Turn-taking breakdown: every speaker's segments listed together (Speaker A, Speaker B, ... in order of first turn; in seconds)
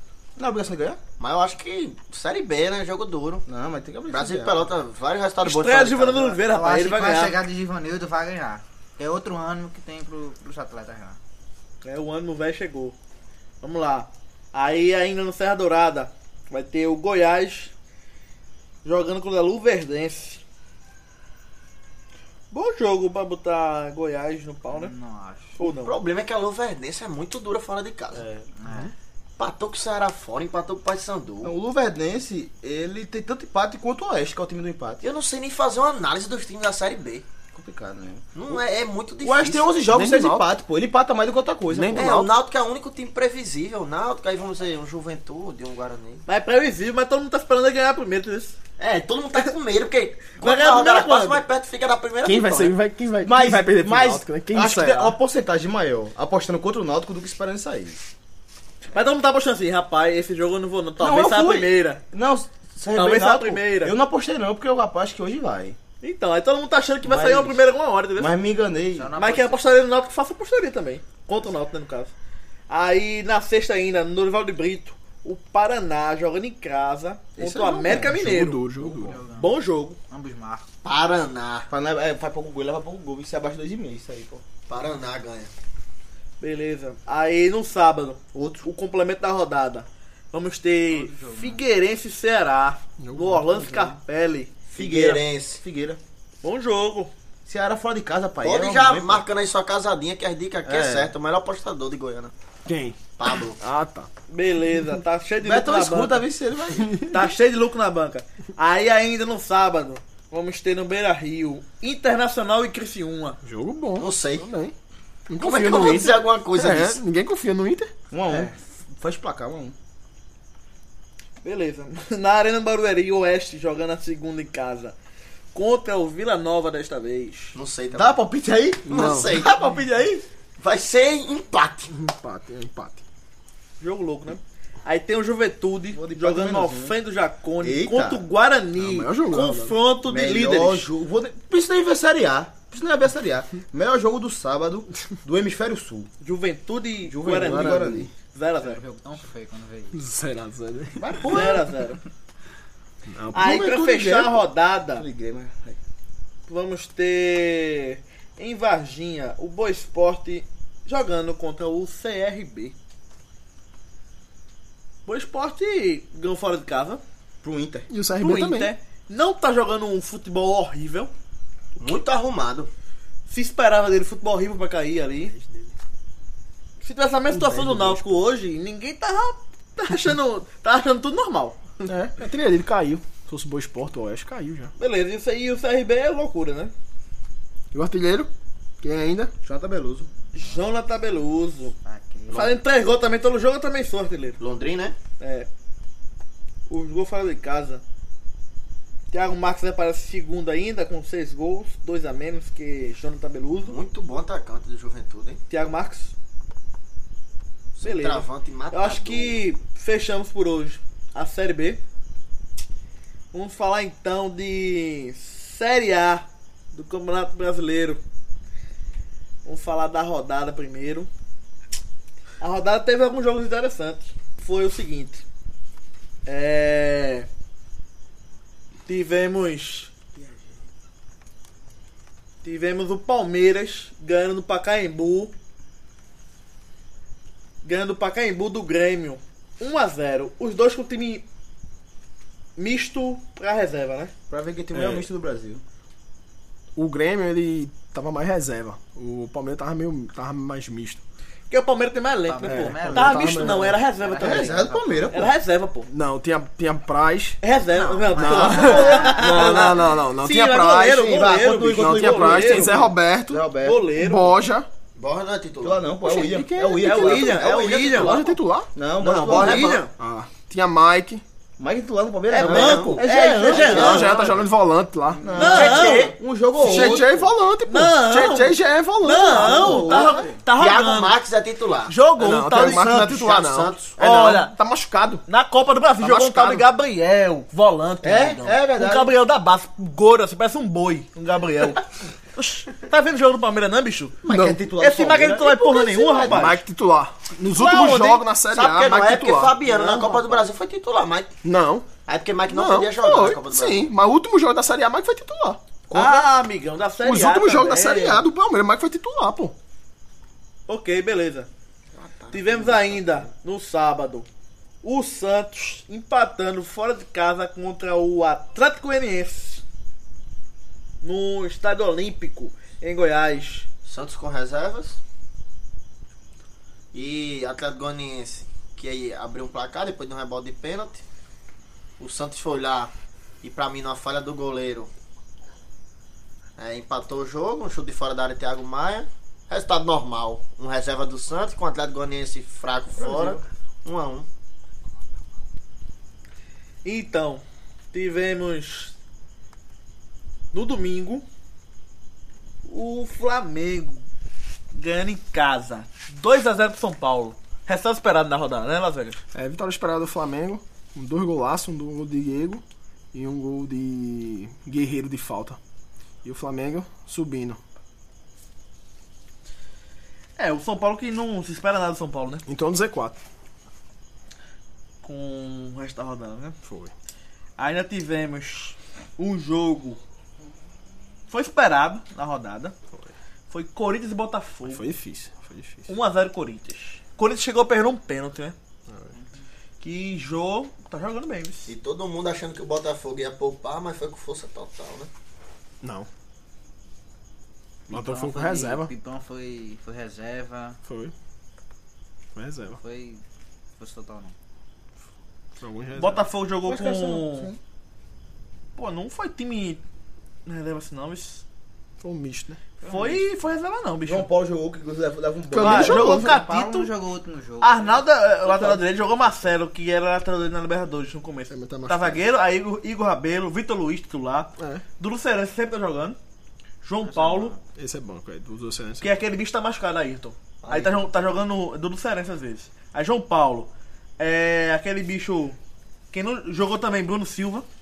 Speaker A: 0.4-1.0, 3.5-4.7, 28.1-28.5, 31.4-35.0, 37.5-38.6, 39.2-42.1, 53.2-58.0, 61.0-65.8, 67.0-67.6, 68.2-69.1, 77.4-78.1, 81.7-84.4, 88.3-88.7, 93.6-93.9, 94.7-96.0, 97.5-99.2, 100.6-101.1, 105.4-107.0, 118.1-119.7, 127.9-130.2, 135.9-136.9, 137.6-138.2, 140.0-146.1, 147.0-148.1, 151.0-151.7, 153.3-154.4, 154.9-155.8, 167.4-167.9, 189.4-190.1, 244.3-245.6, 254.2-255.3, 261.1-263.9, 265.6-267.5, 268.7-269.8, 271.6-274.1, 275.2-277.3, 279.3-280.4, 288.0-289.1, 294.2-296.4, 305.9-306.2, 311.9-313.3, 343.0-343.4, 406.6-407.6, 414.0-416.1
Speaker B: 1.2-3.4, 4.1-6.4, 25.6-28.2, 29.4-31.5, 35.0-37.2, 38.3-39.7, 41.9-46.2, 48.8-52.8, 80.8-81.7, 84.7-85.5, 94.7-95.6, 98.4-102.3, 103.2-103.6, 114.0-114.5, 115.4-117.0, 127.5-128.2, 128.9-129.6, 130.6-131.9, 171.8-172.7, 194.4-195.0, 203.6-205.4, 207.7-209.4, 257.8-258.5, 265.0-265.9, 267.0-268.2, 269.0-269.9, 272.3-274.2, 275.5-276.1, 280.5-282.0, 282.6-284.3, 286.0-286.6, 297.6-301.4, 302.1-303.9, 323.9-325.0, 326.9-331.0, 332.0-334.9, 336.6-344.2, 391.6-395.1, 430.6-431.0
Speaker C: 5.4-7.4, 11.8-12.9, 13.6-17.7, 18.8-20.4, 22.5-24.9, 25.6-26.0, 46.3-48.5, 50.4-51.4, 58.8-62.0, 62.9-63.9, 66.0-68.3, 69.2-72.1, 72.7-78.6, 79.3-80.0, 86.4-94.6, 96.4-97.1, 104.3-106.2, 107.1-113.4, 121.4-125.0, 125.5-127.6, 133.8-140.9, 146.2-148.8, 151.2-152.0, 153.3-155.0, 156.5-162.7, 165.1-167.0, 168.2-171.1, 173.3-175.3, 176.8-181.8, 184.8-186.7, 190.3-191.7, 192.3-194.4, 195.2-195.5, 196.7-197.8, 199.1-203.8, 205.5-206.1, 207.8-211.8, 213.3-218.0, 219.4-221.1, 222.4-225.2, 226.2-227.3, 228.9-229.9, 232.4-235.3, 237.6-241.2, 242.6-244.1, 251.5-255.9, 257.4-262.9, 263.6-264.4, 266.8-268.2, 269.1-269.9, 272.3-274.4, 275.3-277.0, 277.6-281.2, 281.9-283.2, 284.0-284.5, 285.3-294.2, 294.8-296.6, 305.9-308.2, 310.7-311.5, 312.3-314.2, 314.8-319.6, 321.0-323.7, 346.8-348.9, 350.5-351.2, 352.6-354.0, 354.7-359.2, 370.4-372.4, 375.0-376.6, 377.6-380.0, 381.3-382.7, 383.5-384.8, 385.9-388.5, 389.8-391.7, 405.9-407.5, 408.8-409.8, 410.4-411.4, 412.9-414.3, 415.6-416.9, 417.6-426.2, 426.8-427.5, 429.0-435.6, 436.1-437.6
Speaker D: 6.5-11.2, 24.7-25.6, 28.6-28.9, 68.9-69.6, 78.8-80.7, 90.9-91.6, 148.6-150.0, 191.8-192.5, 252.2-255.1, 258.2-259.3, 397.9-400.8, 402.8-403.2, 403.8-404.3, 412.8-413.2, 415.9-418.6, 427.0-427.6
Speaker E: 39.9-40.5, 41.7-42.3, 52.2-55.2, 77.4-79.2, 93.0-93.6, 102.7-104.1, 106.8-107.3, 113.4-114.7, 115.3-117.9, 128.9-129.3, 131.9-133.0, 138.8-139.8, 147.3-148.1, 149.9-151.5, 153.1-153.8, 167.9-168.7, 175.3-175.7, 177.3-178.0, 181.8-184.7, 187.7-188.3, 188.8-189.3, 246.7-251.0, 252.4-253.7, 255.9-257.4, 258.1-264.7, 266.1-267.2, 267.9-268.7, 270.0-271.2, 273.5-275.9, 276.6-280.1, 282.2-285.2, 294.3-294.6, 296.2-300.4, 301.4-301.9, 302.5-305.6, 307.0-309.5, 359.3-365.6, 366.2-367.6, 372.5-373.2, 376.6-376.9, 384.6-385.9, 388.9-389.1, 395.8-396.1, 397.9-398.9, 400.9-401.1, 402.3-402.8, 405.6-406.3, 412.0-412.6, 415.5-416.4, 421.5-422.2, 424.6-424.8, 427.7-429.2